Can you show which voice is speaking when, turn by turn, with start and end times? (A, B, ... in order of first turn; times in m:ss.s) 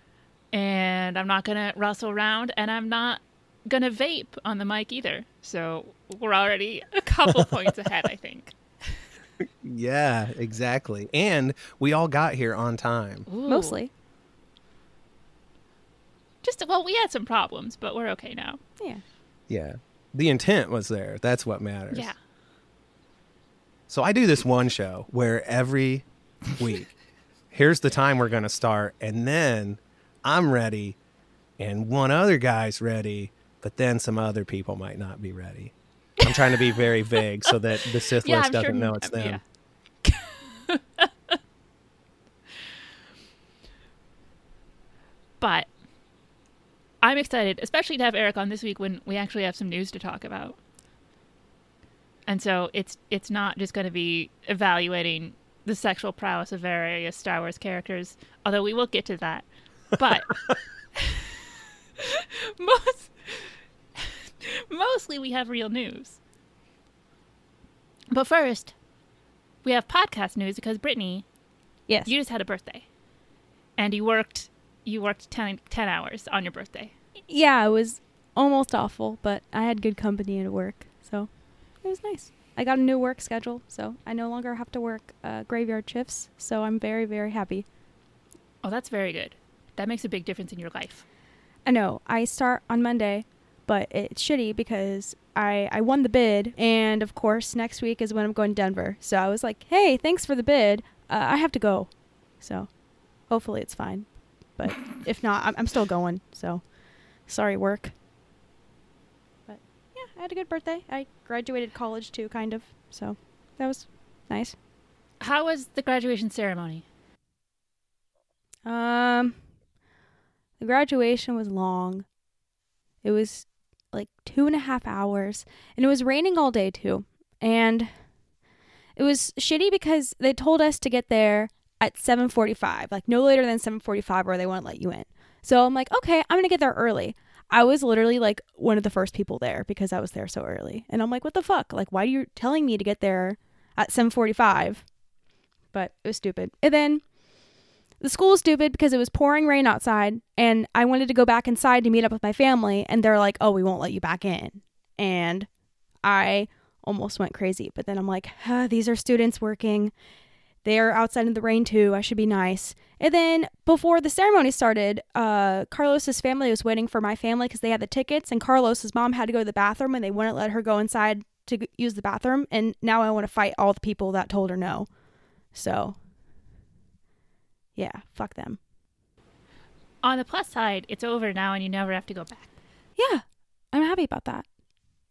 0:00.5-0:09.0 A
0:09.6-0:13.3 B
0:13.3-0:13.8 A
0:13.5-0:13.9 C
0:16.4-0:18.6 A
0:19.5-0:22.1 B
0:21.9-0:22.2 A
0:23.9-0:26.9 B
0:27.5-0:31.0 B
0:31.6-0:39.4 B
0:36.2-0:36.7 A
0:38.1-0:39.4 A
0:40.0-0:41.4 A
0:45.4-0:45.7 A
0:47.0-0:50.6 A
0:52.3-1:01.4 A
1:02.0-1:06.2 A
1:08.1-1:08.7 A
1:09.6-1:11.2 A
1:12.0-1:12.8 A
1:13.8-1:16.9 A
1:17.3-1:21.3 C
1:21.8-1:27.6 C
1:28.6-1:31.0 A
1:31.6-1:42.7 C
1:43.3-1:46.6 C
1:47.2-1:47.9 C
1:49.5-1:54.5 C
1:55.2-1:56.8 A
1:58.6-1:59.4 C
2:00.6-2:02.0 C
2:03.0-2:07.9 C
2:09.0-2:24.8 C
2:25.7-2:27.0 C
2:28.0-2:35.5 C
2:36.0-2:39.9 C
2:40.6-2:54.9 C
2:55.5-2:56.0 C
2:57.8-2:58.6 C
3:00.0-3:02.5 A
3:03.0-3:04.4 C